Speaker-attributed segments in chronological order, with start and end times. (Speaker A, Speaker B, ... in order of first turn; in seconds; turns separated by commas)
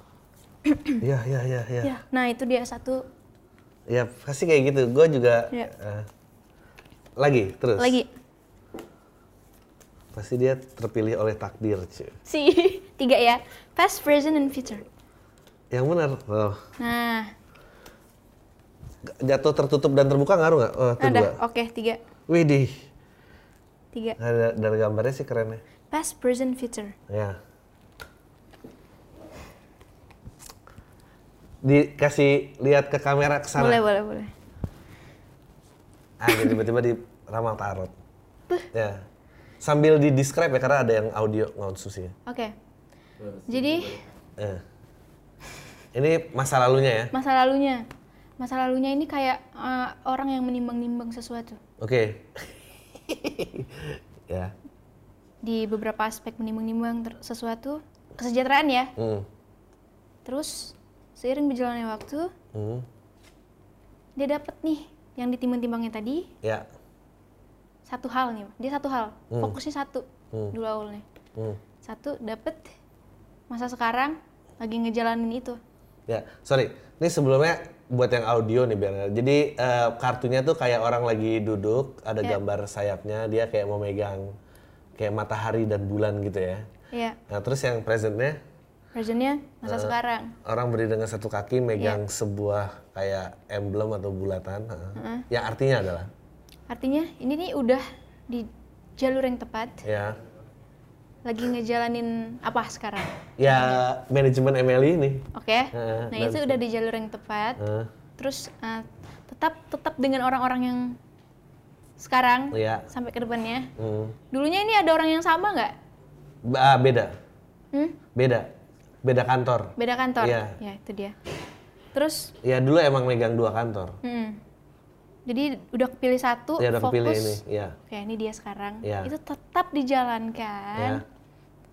Speaker A: 0.7-1.0, Speaker B: 1.0-1.9, Speaker A: 1.8-3.0, Speaker B: 3.9-6.1, Speaker B: 7.2-8.0, Speaker A: 7.8-8.1, Speaker B: 10.1-12.2, Speaker A: 12.3-14.8, Speaker B: 15.7-16.6, Speaker A: 16.8-17.3, Speaker B: 19.1-21.4, Speaker A: 21.0-22.0, Speaker B: 22.3-22.9, Speaker B: 24.2-25.6, Speaker A: 25.9-27.0, Speaker B: 27.1-27.4, Speaker B: 31.6-33.8, Speaker A: 33.6-34.3, Speaker B: 36.2-37.9, Speaker B: 38.7-39.1, Speaker B: 39.6-42.1, Speaker A: 42.3-42.5, Speaker A: 43.3-44.0, Speaker B: 44.4-44.6, Speaker B: 45.9-47.1, Speaker A: 47.1-47.9, Speaker A: 48.4-51.6, Speaker B: 51.8-54.5, Speaker A: 55.4-58.9, Speaker B: 59.0-59.3, Speaker A: 60.2-62.3, Speaker B: 62.5-62.9, Speaker A: 64.2-66.3, Speaker A: 67.9-71.0, Speaker B: 69.3-69.6, Speaker B: 71.3-71.6, Speaker A: 71.8-72.7, Speaker A: 73.5-75.6, Speaker B: 76.1-84.3, Speaker B: 85.0-86.7, Speaker A: 86.9-87.2, Speaker B: 87.3-88.4, Speaker A: 89.0-90.3, Speaker B: 89.6-96.1, Speaker A: 95.0-95.2, Speaker A: 96.7-99.8, Speaker B: 99.8-100.2, Speaker A: 101.2-103.8, Speaker B: 103.4-106.6, Speaker A: 105.3-107.6, Speaker B: 107.6-107.9, Speaker A: 108.2-111.0, Speaker A: 112.0-113.7, Speaker B: 112.5-112.9, Speaker B: 113.8-114.2, Speaker A: 114.3-115.7, Speaker B: 116.5-117.1, Speaker A: 117.7-118.0, Speaker B: 118.1-118.5, Speaker B: 119.0-120.6, Speaker A: 119.8-121.2, Speaker A: 121.9-122.3, Speaker B: 122.4-124.0, Speaker A: 124.0-124.4, Speaker A: 125.3-131.0, Speaker B: 126.6-127.8, Speaker B: 128.8-129.1, Speaker B: 130.8-131.0